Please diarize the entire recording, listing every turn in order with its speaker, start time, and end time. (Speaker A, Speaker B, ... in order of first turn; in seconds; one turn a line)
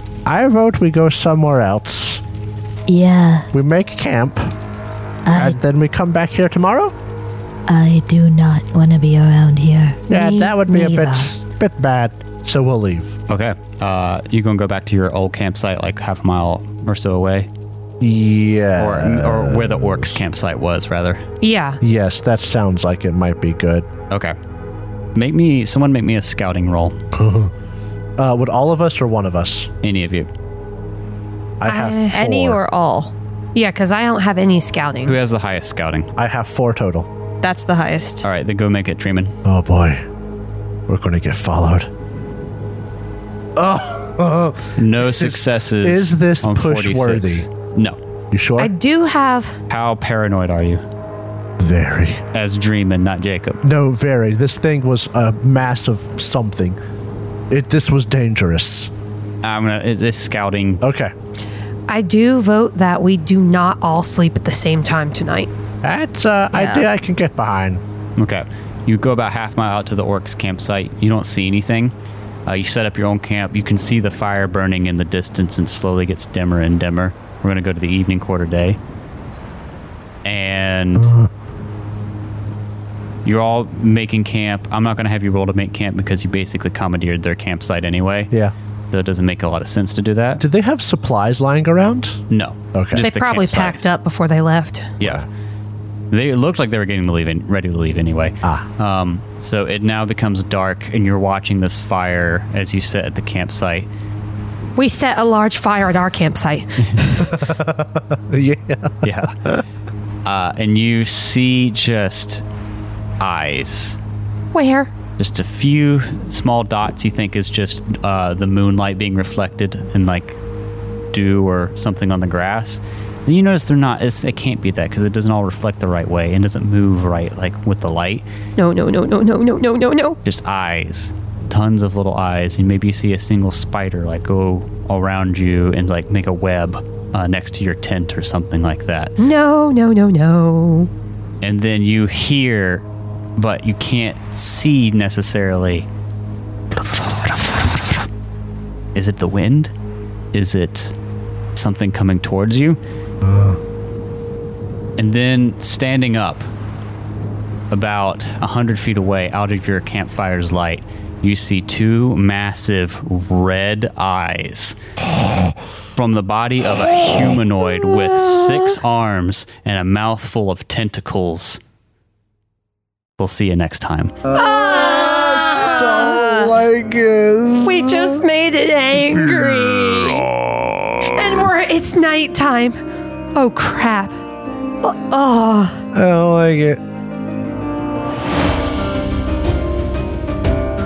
Speaker A: 0.2-2.2
Speaker B: 2.9-3.5
Speaker A: 3.5-4.5
Speaker B: 5.2-5.6
Speaker A: 5.3-6.9
Speaker B: 7.7-11.3
Speaker A: 10.1-13.2
Speaker C: 13.3-17.5
Speaker A: 18.0-20.2
Speaker C: 18.8-21.2
Speaker D: 21.4-21.8
Speaker A: 21.8-23.9
Speaker C: 24.1-24.3
Speaker C: 25.1-27.0
Speaker A: 27.1-27.5
Speaker A: 28.2-29.7
Speaker C: 29.8-30.3
Speaker A: 31.6-32.6
Speaker D: 31.6-32.2
Speaker E: 32.1-33.1
Speaker D: 33.5-35.1
Speaker C: 35.0-36.1
Speaker A: 36.2-37.1
Speaker E: 37.4-38.2
Speaker C: 38.2-39.3
Speaker A: 39.4-40.0
Speaker A: 40.9-41.9
Speaker A: 43.5-47.5
Speaker C: 44.8-48.0
Speaker A: 48.3-48.7
Speaker D: 48.6-49.6
Speaker C: 49.7-50.8
Speaker A: 51.6-52.2
Speaker C: 52.3-53.6
Speaker A: 53.6-56.8
Speaker A: 57.5-58.9
Speaker C: 59.4-60.8
Speaker A: 60.8-61.1
Speaker D: 61.9-65.5
Speaker A: 65.8-67.8
Speaker E: 66.5-66.9
Speaker C: 68.2-71.9
Speaker C: 72.5-78.8
Speaker C: 80.2-81.1
Speaker A: 81.0-81.3
Speaker C: 83.2-88.3
Speaker C: 88.9-90.4
Speaker A: 90.4-92.2
Speaker C: 92.3-93.8
Speaker A: 92.7-93.1
Speaker D: 93.0-94.9
Speaker C: 95.0-95.3
Speaker A: 95.0-95.2
Speaker C: 96.1-103.9
Speaker A: 98.4-98.7
Speaker D: 104.8-107.3
Speaker A: 107.2-109.6
Speaker C: 109.0-109.3
Speaker C: 110.2-112.4
Speaker C: 113.2-114.0
Speaker D: 114.5-114.9
Speaker C: 115.2-120.4
Speaker C: 121.1-128.2
Speaker D: 128.6-130.2
Speaker C: 130.2-139.1
Speaker D: 139.2-140.9
Speaker C: 141.4-142.8
Speaker C: 143.4-145.9
Speaker C: 146.7-148.1
Speaker C: 148.9-149.7
Speaker C: 150.3-150.9
Speaker C: 151.5-152.8
Speaker A: 153.2-153.6
Speaker C: 155.0-156.4
Speaker C: 157.7-164.8
Speaker C: 165.9-171.6
Speaker C: 173.2-174.2
Speaker A: 174.2-178.2
Speaker D: 174.3-176.5
Speaker D: 177.6-180.3
Speaker A: 179.1-181.3
Speaker D: 181.1-182.8
Speaker D: 183.3-184.1
Speaker D: 184.8-185.8
Speaker A: 185.9-186.8